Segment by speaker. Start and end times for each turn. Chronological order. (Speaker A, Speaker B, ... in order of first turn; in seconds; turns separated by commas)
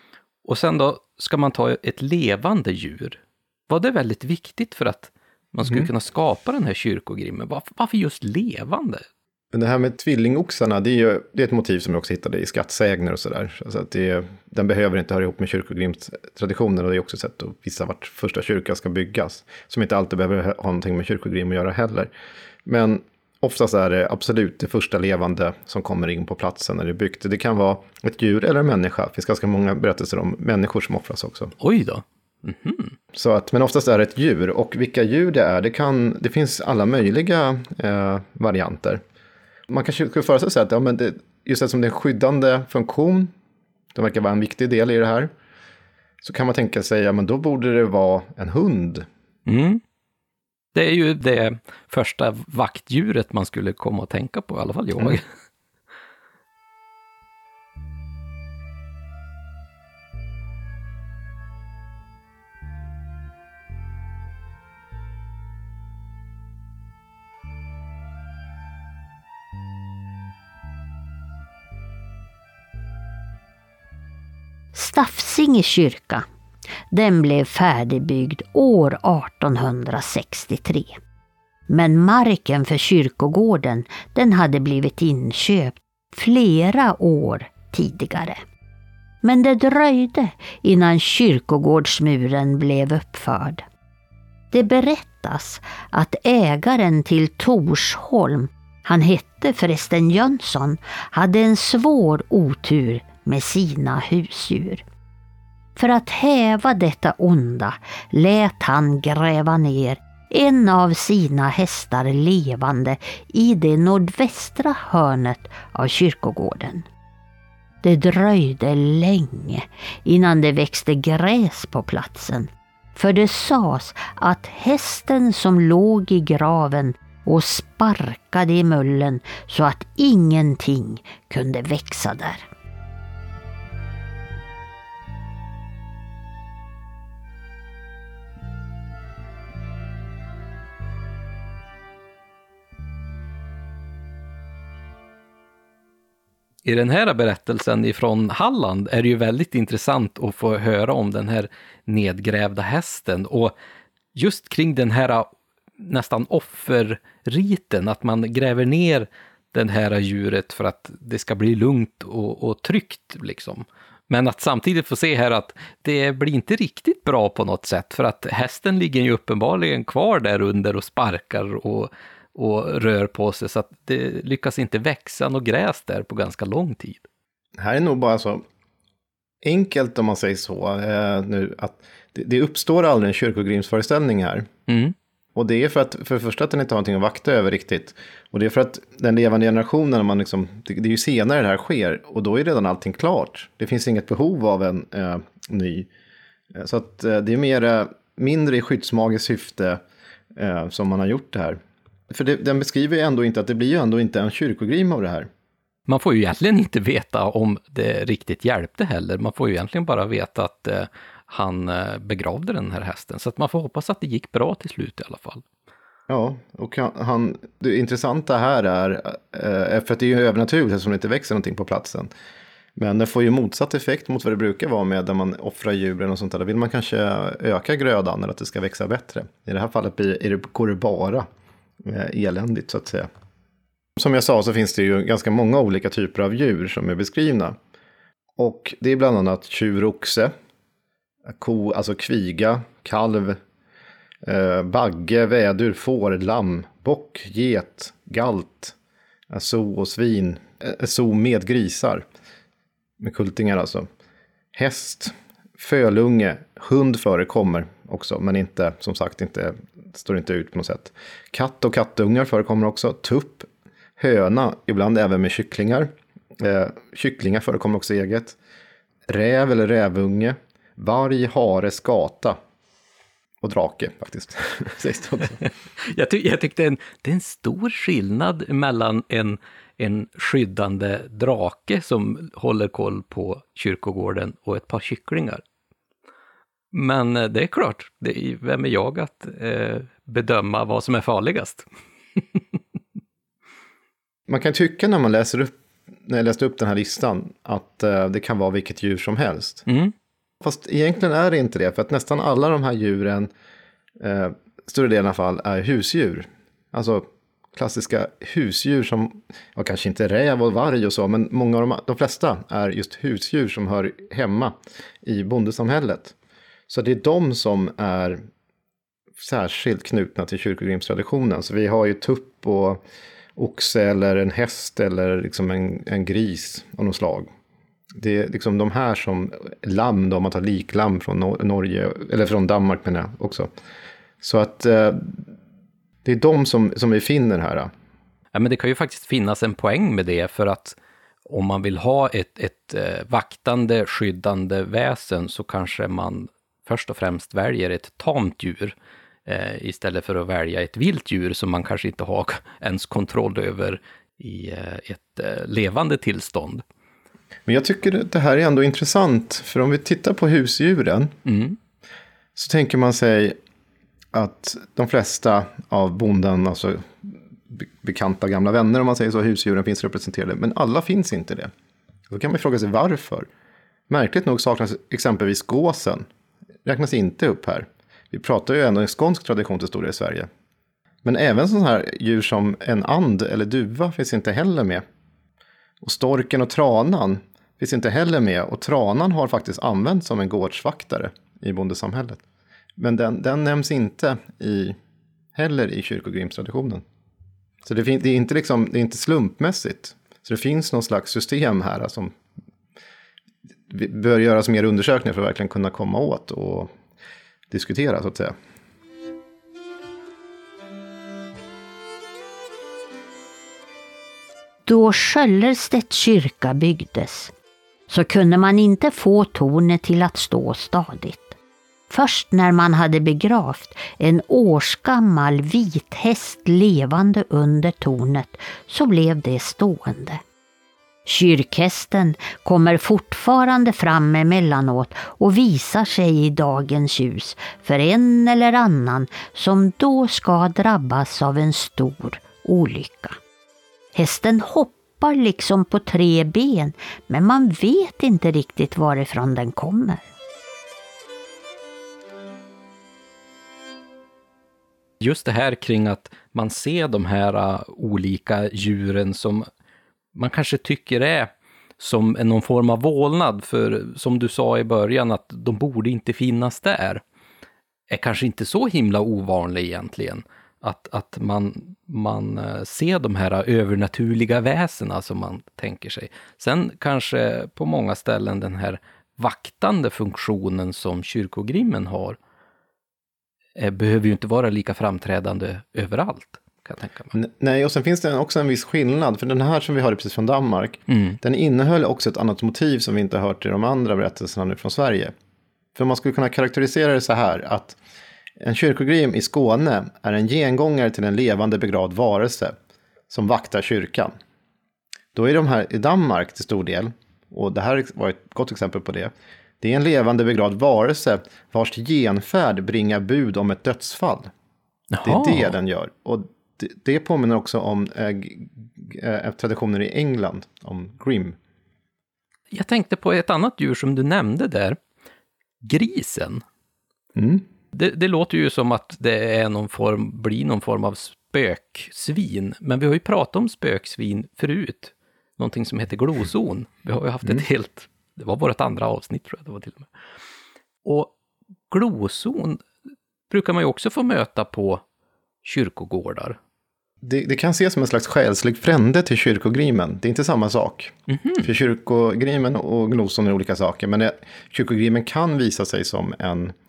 Speaker A: 0.5-9.1, Speaker B: 9.5-22.1, Speaker B: 22.7-31.6, Speaker A: 31.6-33.0, Speaker B: 33.1-39.0, Speaker B: 39.7-43.3, Speaker B: 43.9-45.3, Speaker B: 46.2-49.1, Speaker A: 49.5-49.8, Speaker A: 50.8-55.3, Speaker C: 74.7-76.2, Speaker C: 76.9-81.0, Speaker C: 81.7-88.4, Speaker C: 89.2-93.6, Speaker C: 94.5-104.8, Speaker C: 105.8-116.9, Speaker C: 117.8-132.5, Speaker A: 146.6-153.5, Speaker A: 154.2-177.1, Speaker B: 177.6-178.4, Speaker B: 179.4-184.5, Speaker A: 184.7-184.9, Speaker B: 185.3-195.9, Speaker B: 196.5-199.8, Speaker B: 200.3-201.6, Speaker B: 202.1-205.3, Speaker A: 205.9-215.4, Speaker B: 216.1-222.1, Speaker B: 222.8-231.2, Speaker B: 231.8-233.1, Speaker B: 234.0-237.6, Speaker B: 238.4-240.3, Speaker B: 241.3-243.4, Speaker B: 244.2-248.8, Speaker B: 249.3-252.0, Speaker B: 253.0-253.9, Speaker B: 254.5-268.4, Speaker B: 269.1-272.4, Speaker B: 273.4-275.4, Speaker A: 275.4-285.4, Speaker A: 286.7-292.6, Speaker B: 294.3-299.6, Speaker A: 299.7-299.9, Speaker B: 300.4-303.3, Speaker B: 304.0-316.1, Speaker B: 316.7-318.2, Speaker B: 319.2-322.8, Speaker B: 323.4-327.3, Speaker B: 328.0-333.5, Speaker B: 334.2-335.2, Speaker B: 336.0-337.7, Speaker A: 338.3-356.6, Speaker B: 357.5-361.1, Speaker A: 361.3-361.6, Speaker B: 362.4-363.4, Speaker B: 364.1-371.5, Speaker B: 372.1-373.3, Speaker B: 373.9-376.1, Speaker B: 376.6-380.3, Speaker B: 381.0-384.8, Speaker B: 385.8-392.2, Speaker B: 392.8-394.8, Speaker B: 395.4-396.8, Speaker B: 397.6-402.1, Speaker B: 403.7-406.7, Speaker B: 407.5-408.3, Speaker C: 414.7-417.3, Speaker C: 417.9-421.4, Speaker C: 421.9-430.2, Speaker C: 431.1-443.2, Speaker C: 443.9-450.1, Speaker A: 455.0-459.5, Speaker A: 460.1-467.0, Speaker A: 467.9-482.2, Speaker A: 483.6-487.1, Speaker B: 487.1-495.1, Speaker A: 490.9-491.2, Speaker B: 495.8-497.8, Speaker B: 498.4-502.5, Speaker B: 503.1-504.1, Speaker B: 505.1-514.3, Speaker A: 514.9-515.5, Speaker B: 515.0-521.4, Speaker A: 522.5-524.8, Speaker A: 525.6-526.4, Speaker B: 527.2-527.5, Speaker A: 527.7-539.9, Speaker A: 540.9-541.1, Speaker A: 541.7-542.6, Speaker A: 543.3-544.8, Speaker A: 545.4-546.4, Speaker B: 547.0-556.5, Speaker A: 551.1-551.5